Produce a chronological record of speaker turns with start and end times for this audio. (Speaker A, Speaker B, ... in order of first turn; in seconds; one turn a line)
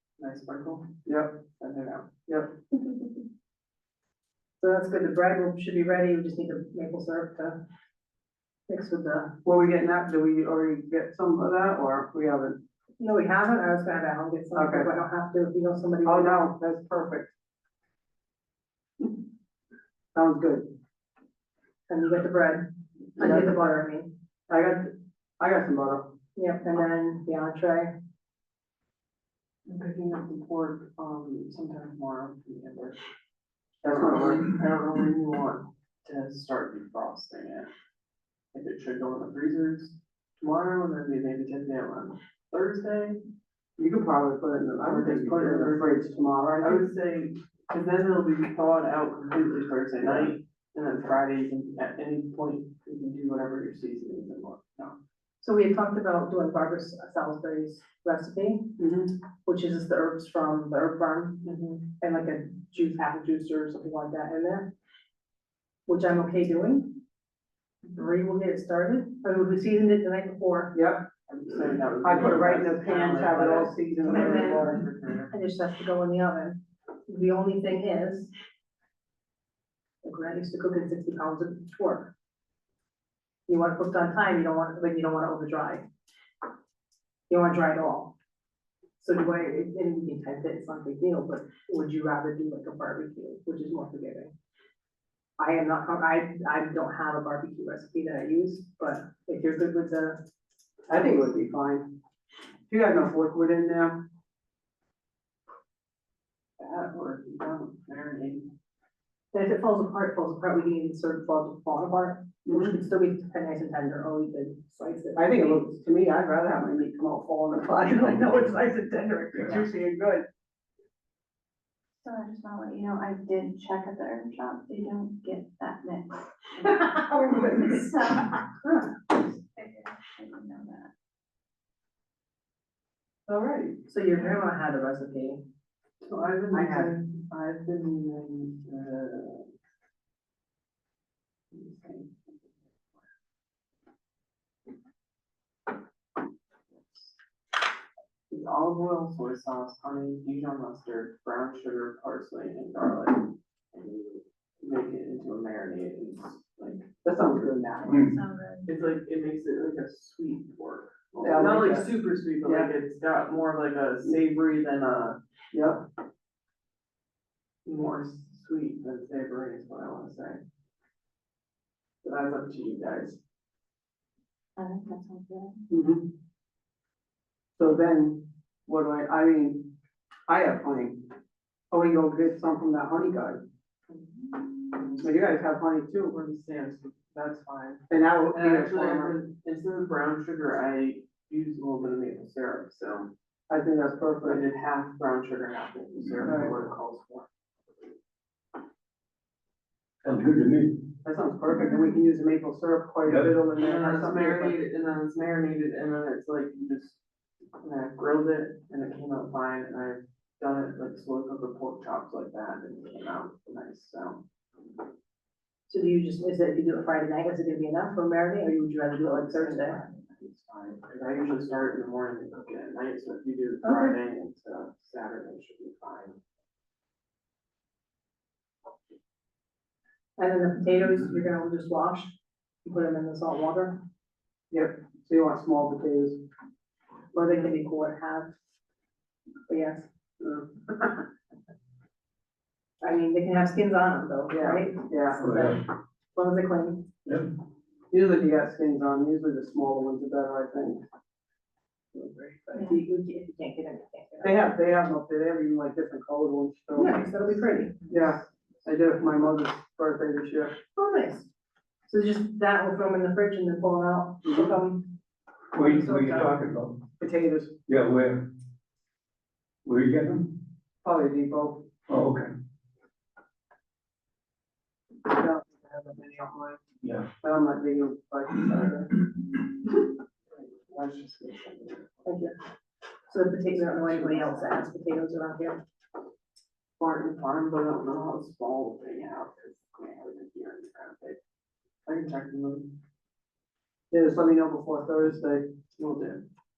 Speaker A: 0.2-1.0
Speaker B: 1.1-1.4
Speaker A: 1.6-2.2
Speaker C: 4.6-7.6
Speaker C: 8.7-9.4
Speaker B: 9.4-12.6
Speaker C: 13.0-16.4
Speaker B: 14.5-14.9
Speaker B: 16.0-17.3
Speaker B: 20.1-20.7
Speaker C: 21.9-24.1
Speaker B: 23.2-23.6
Speaker B: 24.5-26.1
Speaker C: 26.4-27.9
Speaker A: 29.6-33.0
Speaker A: 33.8-37.7
Speaker B: 33.8-34.5
Speaker A: 38.5-43.2
Speaker B: 43.8-46.9
Speaker A: 44.8-46.0
Speaker A: 46.5-55.0
Speaker C: 55.4-58.8
Speaker B: 58.8-59.1
Speaker C: 59.4-64.7
Speaker A: 61.4-61.8
Speaker C: 65.9-67.0
Speaker C: 67.9-70.8
Speaker B: 70.7-71.0
Speaker A: 71.3-75.3
Speaker B: 72.0-74.8
Speaker C: 74.0-74.8
Speaker C: 75.3-78.3
Speaker C: 80.0-82.1
Speaker C: 83.5-85.8
Speaker C: 87.3-88.1
Speaker C: 89.0-94.3
Speaker C: 95.4-100.2
Speaker B: 100.9-101.9
Speaker B: 102.7-104.0
Speaker A: 106.6-108.5
Speaker C: 109.3-115.6
Speaker B: 112.5-112.8
Speaker B: 115.2-118.6
Speaker C: 118.0-119.7
Speaker B: 119.4-120.2
Speaker D: 122.0-128.5
Speaker D: 129.1-130.9
Speaker A: 133.3-134.3
Speaker C: 133.9-135.4
Speaker A: 136.0-139.5
Speaker B: 136.5-136.9
Speaker A: 141.5-142.1
Speaker A: 146.7-147.1
Speaker A: 148.3-156.9
Speaker B: 157.0-157.9
Speaker D: 157.8-158.7
Speaker E: 157.9-158.2
Speaker A: 158.7-165.2
Speaker B: 161.2-161.9
Speaker B: 162.4-162.7
Speaker B: 165.5-165.8
Speaker A: 167.7-170.4
Speaker A: 172.0-173.2
Speaker D: 174.6-175.6
Speaker B: 175.7-176.1
Speaker B: 177.6-179.7
Speaker B: 180.3-181.1
Speaker B: 181.7-183.4
Speaker A: 183.9-185.1
Speaker B: 185.0-186.1
Speaker A: 186.1-193.1
Speaker B: 187.9-189.2
Speaker B: 193.5-194.4
Speaker A: 194.2-197.3
Speaker B: 196.2-196.5
Speaker E: 200.0-200.9
Speaker B: 201.0-204.6
Speaker E: 203.0-203.4
Speaker A: 203.5-207.0
Speaker A: 207.6-214.2
Speaker C: 215.7-219.8
Speaker A: 219.0-226.2
Speaker C: 223.6-224.0
Speaker C: 230.2-232.1
Speaker C: 232.6-233.8
Speaker B: 234.5-236.2
Speaker C: 237.1-238.3
Speaker C: 239.5-239.8
Speaker B: 240.2-240.9
Speaker C: 242.8-245.6
Speaker B: 244.3-245.2
Speaker E: 245.2-245.6
Speaker C: 246.1-246.9
Speaker B: 247.9-250.8
Speaker B: 251.9-252.8
Speaker C: 252.5-254.5
Speaker B: 254.2-257.1
Speaker C: 256.7-257.9
Speaker B: 257.9-260.5
Speaker C: 260.7-261.3
Speaker C: 261.9-265.0
Speaker B: 264.2-264.5
Speaker C: 265.5-266.4
Speaker E: 265.5-266.9
Speaker B: 267.0-267.6
Speaker E: 267.7-268.3
Speaker E: 269.6-270.4
Speaker B: 270.8-271.6
Speaker E: 271.9-272.3
Speaker B: 275.0-276.6
Speaker E: 276.8-277.1
Speaker B: 277.2-279.0
Speaker A: 280.3-282.0
Speaker C: 282.0-282.3
Speaker C: 283.1-285.6
Speaker A: 283.7-284.2
Speaker A: 286.8-291.2
Speaker A: 291.9-292.8
Speaker B: 293.9-295.5
Speaker A: 295.8-296.2